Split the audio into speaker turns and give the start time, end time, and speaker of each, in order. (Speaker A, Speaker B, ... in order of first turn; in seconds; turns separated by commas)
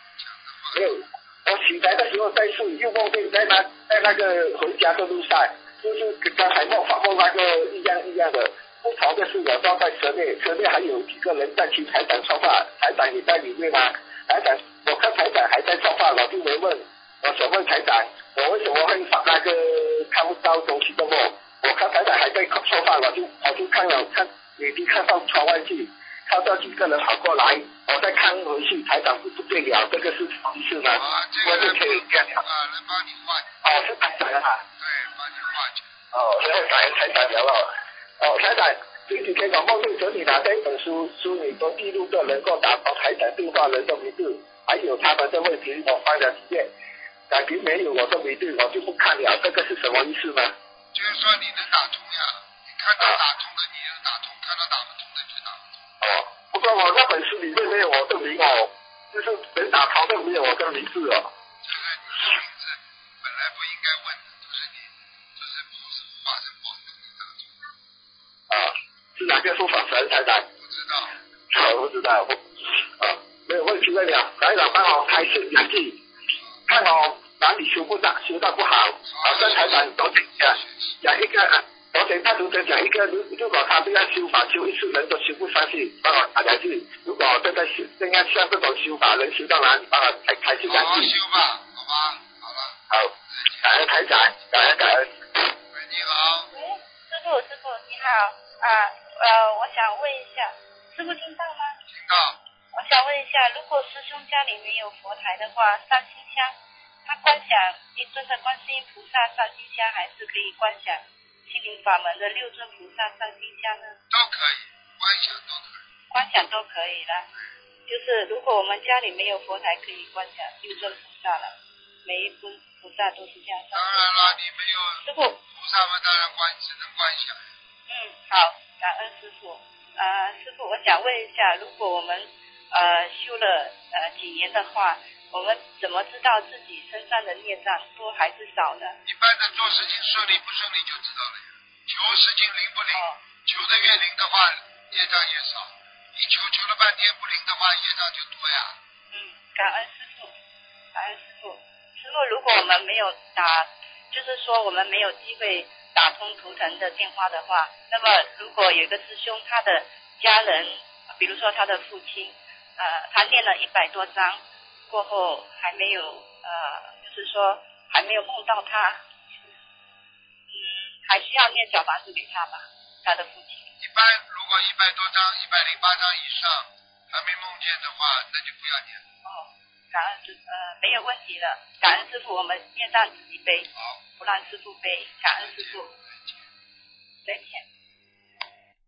Speaker A: 0.2-1.0, Speaker B: 0.8-32.4, Speaker A: 30.9-33.5, Speaker B: 33.6-34.6, Speaker A: 34.8-35.9, Speaker B: 36.1-46.7, Speaker B: 47.3-50.5, Speaker A: 50.9-55.7, Speaker B: 56.0-61.3, Speaker A: 61.6-67.5, Speaker B: 68.5-70.5, Speaker A: 70.6-71.1, Speaker B: 71.5-72.5, Speaker B: 73.0-76.0, Speaker B: 76.7-91.1, Speaker A: 79.1-81.0, Speaker A: 90.7-92.8, Speaker B: 92.9-95.1, Speaker A: 93.3-93.8, Speaker A: 95.7-96.5, Speaker C: 96.5-101.8, Speaker A: 101.9-102.4, Speaker C: 102.8-114.0, Speaker A: 114.1-115.8, Speaker C: 116.1-117.3, Speaker C: 117.9-124.4, Speaker A: 123.7-127.4, Speaker C: 125.0-125.4, Speaker C: 127.9-139.0, Speaker A: 139.1-148.8, Speaker C: 149.1-150.3, Speaker C: 150.9-169.1, Speaker C: 170.5-173.7, Speaker A: 173.8-179.0, Speaker C: 179.2-185.9, Speaker A: 185.5-185.8, Speaker C: 187.2-187.6